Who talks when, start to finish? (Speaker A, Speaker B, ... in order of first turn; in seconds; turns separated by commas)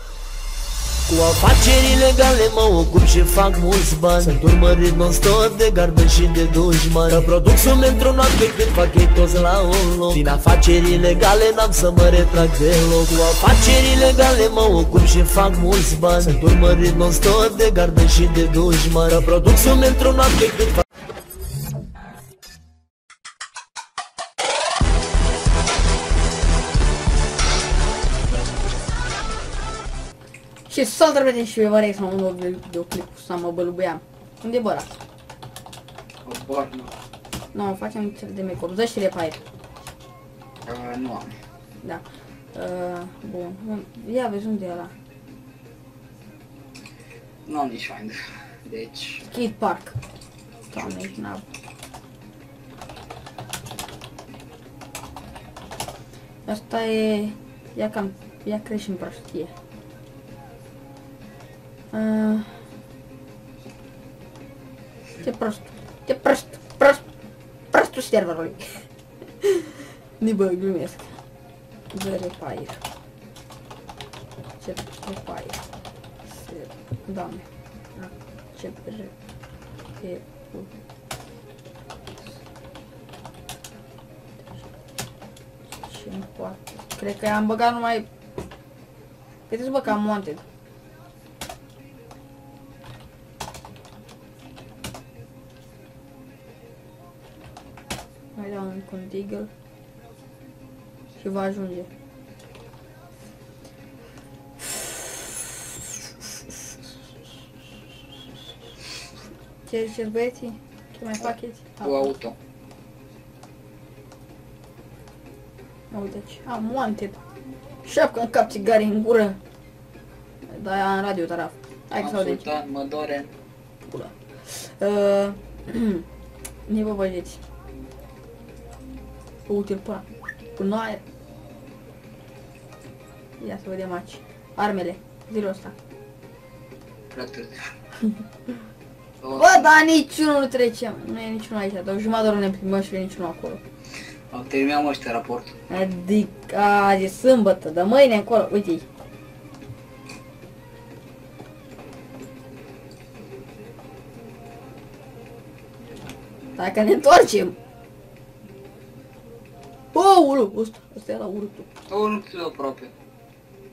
Speaker A: 1.1-20.8, Speaker B: 30.7-35.0, Speaker C: 36.2-36.9, Speaker B: 37.5-39.4, Speaker C: 40.6-41.3, Speaker B: 41.8-44.9, Speaker C: 47.4-49.2, Speaker B: 49.3-50.0, Speaker B: 50.7-51.5, Speaker B: 56.5-59.5, Speaker B: 61.9-62.6, Speaker B: 65.2-67.0, Speaker B: 67.7-68.8, Speaker B: 69.4-71.2, Speaker B: 71.9-72.8, Speaker B: 74.6-75.6, Speaker B: 76.3-79.1, Speaker B: 80.0-80.8, Speaker B: 85.7-88.1, Speaker B: 89.5-90.4, Speaker B: 98.3-99.5, Speaker B: 101.2-101.9, Speaker B: 109.6-112.1, Speaker C: 111.8-112.4, Speaker B: 115.9-117.2, Speaker B: 117.8-119.4, Speaker B: 120.5-122.5, Speaker C: 122.0-123.3, Speaker B: 123.8-126.0, Speaker B: 126.7-127.4, Speaker B: 129.5-131.0, Speaker B: 133.4-135.7, Speaker C: 137.1-137.6, Speaker C: 139.2-139.7, Speaker B: 139.3-143.6, Speaker C: 144.3-145.5, Speaker B: 145.7-148.8, Speaker B: 156.6-157.6, Speaker B: 159.9-161.7, Speaker C: 161.9-162.9